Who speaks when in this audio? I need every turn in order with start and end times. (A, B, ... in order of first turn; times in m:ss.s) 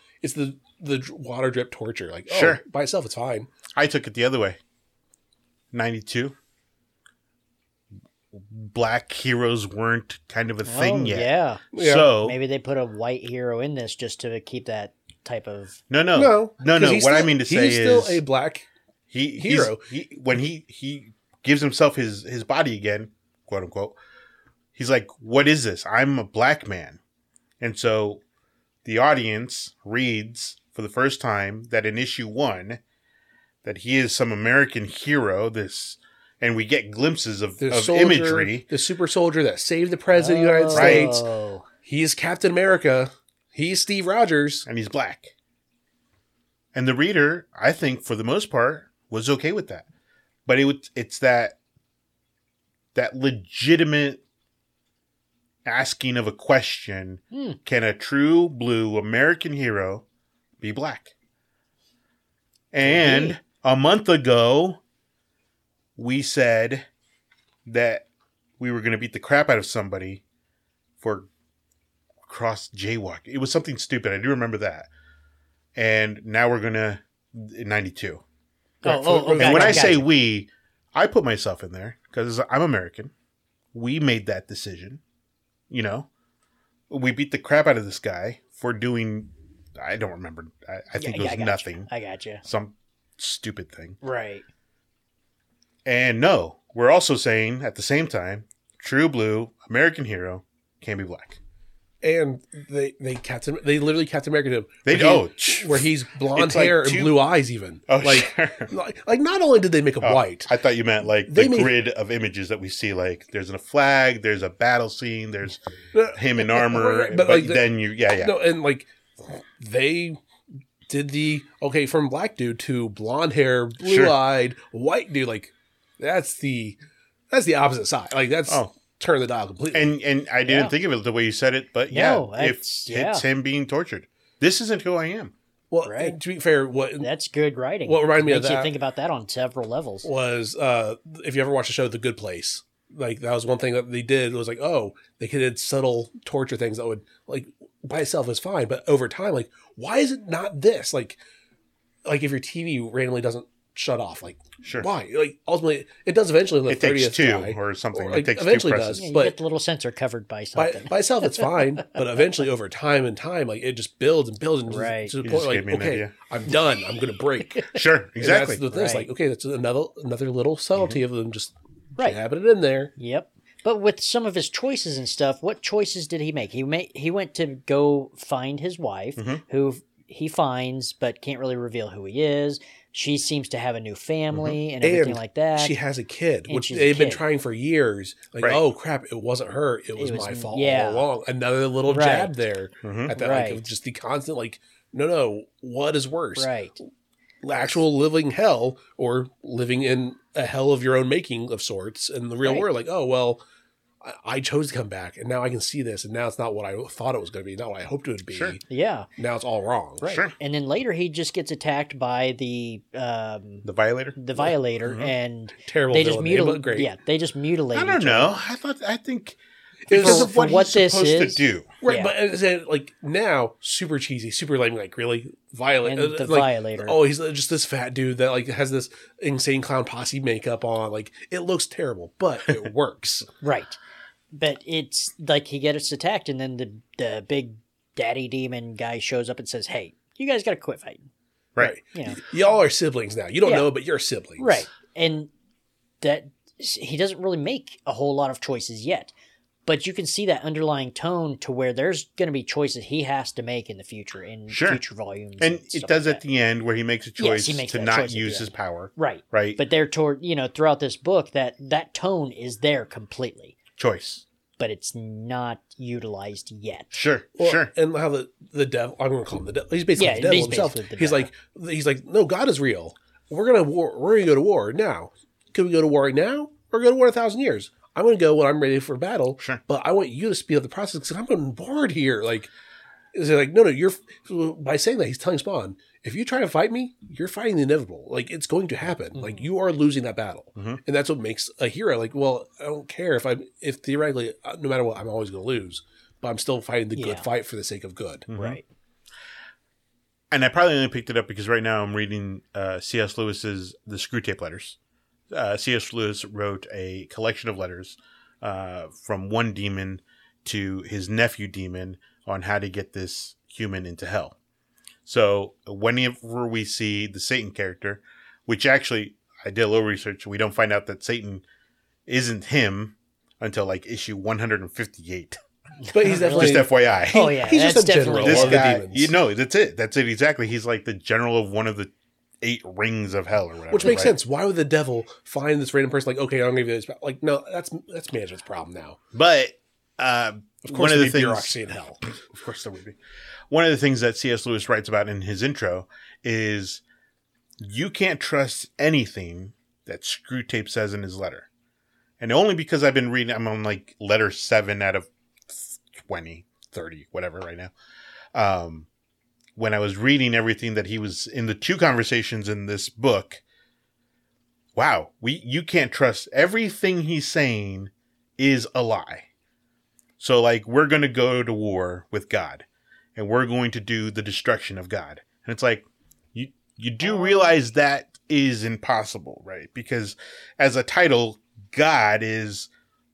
0:00.2-0:03.5 A
0:02.3-0:02.6 B
0:03.8-0:04.6 B
0:05.7-0:06.3 B
0:08.3-0:12.4 B
0:10.6-0:15.8 C
0:11.7-0:12.1 A
0:15.9-0:18.2 B
0:16.1-0:18.7 A
0:19.1-0:24.0 B
0:19.4-0:19.8 A
0:24.8-0:27.0 B
0:27.6-0:28.2 B
0:28.8-0:32.8 B
0:33.6-0:38.6 B
0:37.6-0:41.2 A
0:40.2-0:41.6 C
0:40.7-0:41.1 B
0:41.8-0:44.7 A
0:44.6-0:45.3 B
0:46.7-0:49.9 B
0:50.4-0:51.6 B
0:52.9-0:54.2 B
0:55.6-1:00.0 B
0:57.3-0:57.6 C
1:00.6-1:01.1 B
1:02.7-1:04.8 B
1:02.8-1:03.4 C
1:06.0-1:06.9 B
1:07.6-1:08.0 B
1:08.6-1:10.2 B
1:11.0-1:11.3 B
1:12.3-1:14.9 B
1:15.8-1:18.2 B
1:18.8-1:20.0 A
1:18.8-1:20.1 C
1:19.4-1:23.1 B
1:23.7-1:25.0 B
1:25.7-1:26.1 B
1:26.9-1:31.9 B
1:31.0-1:32.4 C
1:32.4-1:34.0 B
1:34.0-1:34.4 C
1:35.8-1:41.4 B
1:42.0-1:50.5 A
1:44.8-1:47.2 B
1:47.9-1:48.7 B
1:50.0-1:55.6 B
1:51.2-1:51.7 A
1:55.9-2:00.2 A
1:56.1-1:58.4 B
2:00.9-2:06.8 A
2:03.8-2:04.2 B
2:07.3-2:09.9 A
2:09.7-2:15.3 B
2:10.4-2:10.7 C
2:11.9-2:13.2 C
2:15.7-2:17.1 A
2:15.8-2:16.2 C
2:17.0-2:20.1 C
2:17.8-2:18.7 A
2:20.0-2:31.2 A
2:32.0-2:39.4 A
2:34.6-2:34.9 B
2:36.7-2:39.0 B
2:39.0-2:41.5 C
2:40.6-2:52.9 A
2:44.7-2:45.1 C
2:45.2-2:46.1 B
2:47.7-2:48.6 B
2:48.7-2:49.1 C
2:53.0-3:05.8 C
2:59.2-2:59.4 B
3:04.8-3:16.5 A
3:06.5-3:07.2 C
3:10.0-3:11.1 C
3:11.9-3:12.3 C
3:12.8-3:13.1 B
3:13.1-3:13.7 C
3:16.4-3:16.8 C
3:17.4-3:23.4 A
3:24.0-3:28.6 A
3:28.3-3:28.6 B
3:28.7-3:29.1 C
3:29.2-3:30.2 A
3:30.0-3:30.3 B
3:30.3-3:38.4 C
3:33.6-3:34.2 B
3:34.8-3:35.1 B
3:35.6-3:36.9 A
3:37.7-3:39.4 B
3:39.9-3:40.4 A
3:39.9-3:41.7 B
3:39.9-3:42.1 C
3:41.8-3:53.3 A
3:45.8-3:47.0 C
3:53.4-3:53.8 C
3:54.3-4:01.0 C
4:01.6-4:04.6 A
4:01.8-4:02.2 C
4:03.4-4:03.7 C
4:04.4-4:05.3 C
4:06.0-4:09.1 C
4:09.6-4:16.2 C
4:14.5-4:14.8 B
4:15.4-4:19.6 B
4:17.2-4:23.6 C
4:23.8-4:24.2 B
4:24.6-4:26.9 C
4:26.9-4:27.7 B
4:27.4-4:42.5 A
4:30.0-4:31.3 C
4:43.1-4:58.3 A
4:49.2-4:49.4 C
4:56.9-4:57.3 C
4:58.3-4:58.6 B
4:58.3-4:58.6 C
5:00.3-5:04.8 B
5:05.3-5:14.4 B
5:15.0-5:21.4 B
5:22.1-5:25.4 B
5:25.8-5:28.7 C
5:25.9-5:29.1 A
5:26.1-5:27.3 B
5:28.2-5:34.1 B
5:33.7-5:39.0 A
5:39.1-5:41.5 B
5:40.6-5:42.0 A
5:42.2-5:43.0 B
5:43.5-5:46.8 B
5:47.6-5:51.5 B
5:52.2-5:57.7 B
5:58.3-5:58.9 B
5:59.6-6:03.4 B
6:04.8-6:09.3 B
6:10.2-6:22.7 B
6:17.0-6:17.5 C